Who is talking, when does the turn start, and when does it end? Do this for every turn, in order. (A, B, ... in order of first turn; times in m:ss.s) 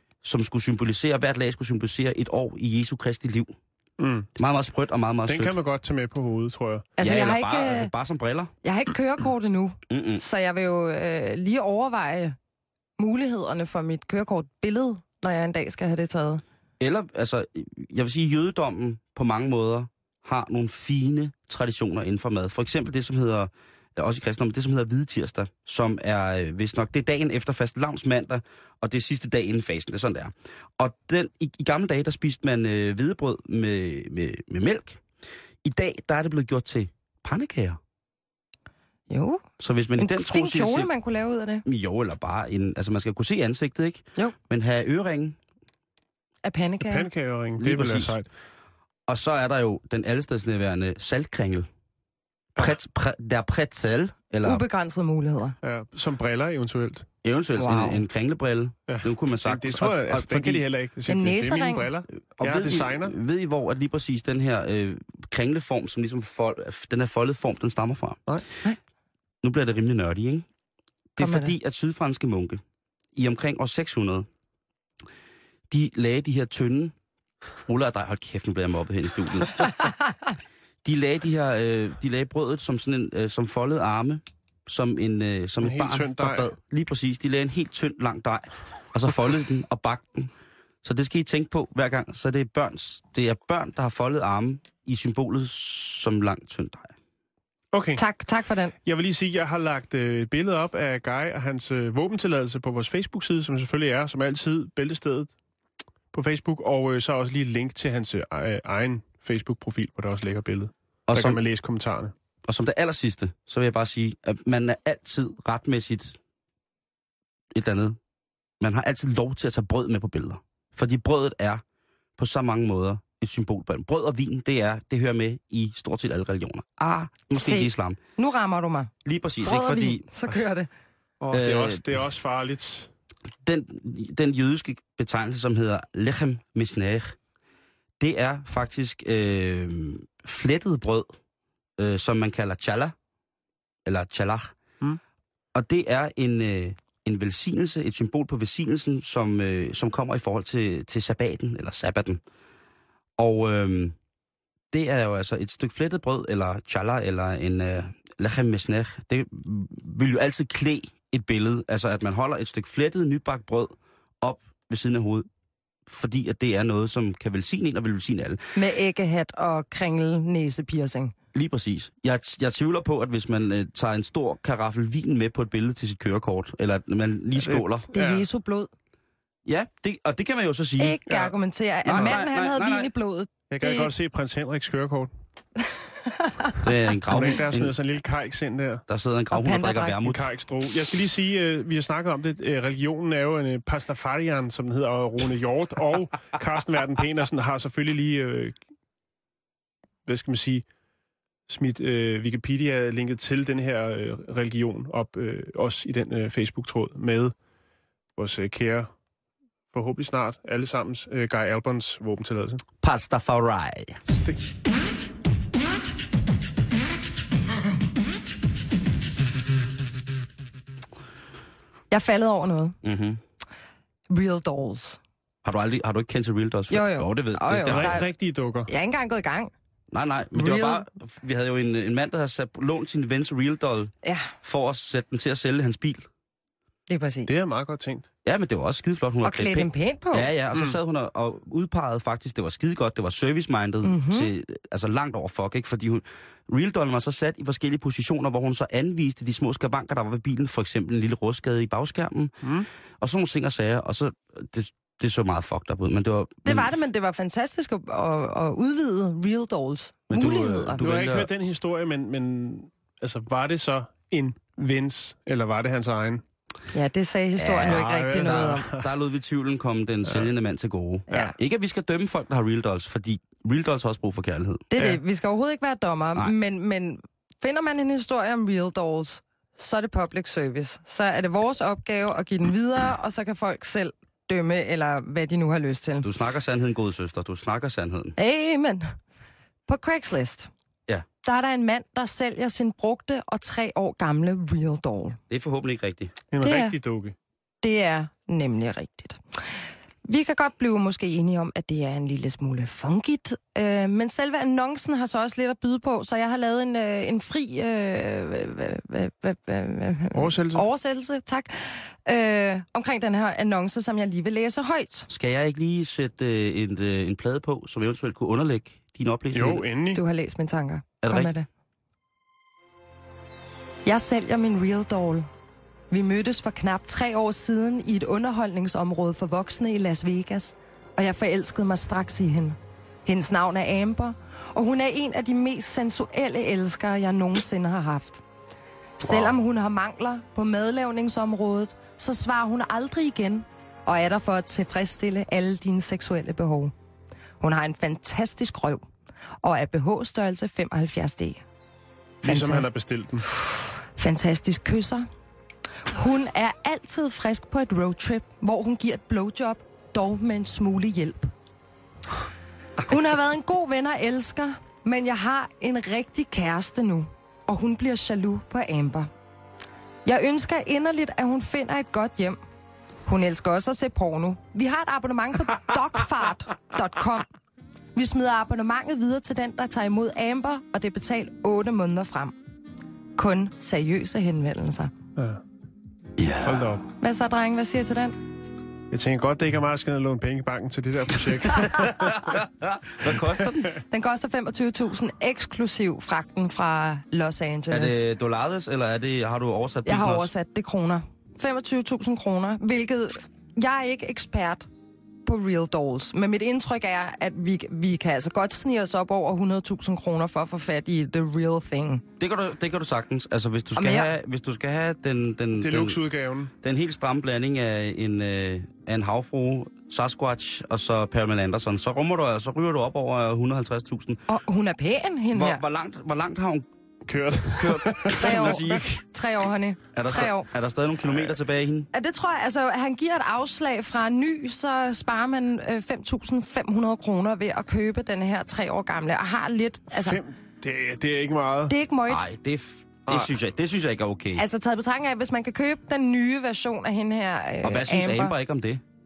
0:00.2-0:03.5 A
0:04.0-0:04.3 B
0:04.4-0:05.6 A
0:05.3-0:06.9 B
0:07.0-0:07.9 C
0:07.0-0:08.5 A
0:08.6-0:12.4 C
0:09.9-0:10.2 A
0:13.0-0:16.4 C
0:16.8-0:35.0 A
0:35.6-0:37.8 A
0:39.1-0:39.4 C
0:39.6-0:40.9 A
0:40.0-0:41.6 C
0:41.6-0:45.4 A
0:46.4-0:47.1 C
0:46.8-0:48.3 B
0:47.6-0:48.2 A
0:49.1-0:51.7 A
0:52.6-0:54.6 A
0:54.4-0:55.5 C
0:55.6-0:57.1 B
0:57.2-1:00.6 A
0:57.6-0:58.0 C
0:58.9-1:03.2 B
1:01.1-1:01.9 C
1:02.4-1:08.2 A
1:09.4-1:10.5 A
1:11.2-1:12.6 A
1:11.2-1:11.5 C
1:13.1-1:14.3 A
1:15.7-1:16.9 A
1:17.6-1:19.9 A
1:20.8-1:30.3 A
1:25.6-1:26.5 B
1:30.8-1:36.9 A
1:37.7-1:38.0 B
1:38.0-1:38.7 C
1:38.8-1:45.3 B
1:46.1-1:52.1 B
1:51.1-1:51.4 A
1:52.4-1:56.2 A
1:57.5-1:58.0 A
1:58.6-2:01.6 A
2:02.2-2:08.0 A
2:07.3-2:08.9 C
2:09.0-2:10.0 A
2:09.4-2:10.7 C
2:11.2-2:12.9 B
2:11.3-2:11.8 A
2:13.4-2:17.2 A
2:18.0-2:21.1 A
2:21.8-2:22.9 A
2:23.8-2:24.6 A
2:25.5-2:32.2 A
2:33.2-2:34.0 A
2:34.7-2:45.3 A
2:45.9-2:48.4 A
2:48.6-2:51.1 C
2:51.3-2:57.9 A
2:57.4-2:58.2 B
2:57.9-2:58.7 C
2:59.4-3:01.2 A
3:00.8-3:03.9 C
3:01.8-3:02.9 A
3:03.5-3:05.1 B
3:06.1-3:06.5 C
3:06.6-3:07.8 A
3:07.1-3:08.8 B
3:08.9-3:10.2 A
3:09.3-3:10.0 C
3:10.0-3:18.6 B
3:20.0-3:20.6 B
3:21.5-3:27.3 B
3:28.2-3:28.9 B
3:29.7-3:32.6 B
3:32.8-3:34.0 A
3:34.1-3:34.4 B
3:41.9-3:42.8 C
3:42.8-3:43.2 A
3:44.1-3:45.0 C
3:45.4-3:48.0 A
3:46.7-3:48.0 C
3:47.7-3:48.7 B
3:48.7-3:49.5 C
3:49.9-3:56.1 A
3:50.3-3:50.8 C
3:56.9-3:57.3 C
3:57.3-3:58.1 B
3:58.2-4:12.4 A
3:59.2-4:00.3 C
4:03.8-4:04.3 C
4:12.4-4:12.7 B
4:13.0-4:16.7 A
4:16.4-4:20.8 C
4:20.1-4:21.3 A
4:20.8-4:26.2 B
4:26.7-4:28.7 C
4:27.4-4:34.6 A
4:27.6-4:28.9 B
4:34.7-4:46.1 C
4:46.0-4:48.1 A
4:48.2-4:48.9 C
4:49.7-4:50.5 C
4:51.2-4:55.2 C
4:55.3-4:56.2 A
4:56.3-4:57.1 B
4:56.4-4:56.7 C
4:57.6-4:59.2 C
5:00.0-5:15.1 C
5:10.1-5:10.6 B
5:15.1-5:19.6 A
5:19.3-5:20.0 B
5:19.9-5:21.5 C
5:21.0-5:21.3 A
5:23.8-5:25.3 C
5:25.9-5:38.2 C
5:39.0-5:46.7 C
5:39.0-5:39.3 A
5:47.4-5:48.8 C
5:49.4-5:51.4 C
5:52.2-5:53.3 B
5:52.2-5:52.7 C
5:53.4-5:55.1 C
5:55.8-6:01.3 C
6:02.8-6:09.1 C
6:10.0-6:12.4 C
6:13.0-6:17.3 C
6:17.9-6:22.4 C
6:23.2-6:24.9 C
6:26.2-6:26.8 A
6:26.4-6:26.8 B
6:27.0-6:28.2 C
6:28.9-6:32.3 B
6:31.7-6:33.7 A
6:33.9-6:38.0 C
6:37.7-6:40.3 A
6:39.8-6:44.7 C
6:45.2-6:52.0 C
6:52.2-6:56.0 A
6:53.7-6:54.1 C
6:55.6-6:56.5 B
6:56.6-7:04.2 A
7:04.3-7:05.6 C
7:05.3-7:06.6 A
7:07.0-7:08.9 B
7:07.4-7:08.9 A
7:08.2-7:10.5 C
7:09.9-7:11.9 A
7:11.9-7:20.2 C
7:19.9-7:21.7 B
7:21.7-7:22.2 C
7:22.1-7:24.4 A
7:24.3-7:28.3 C
7:27.6-7:28.8 A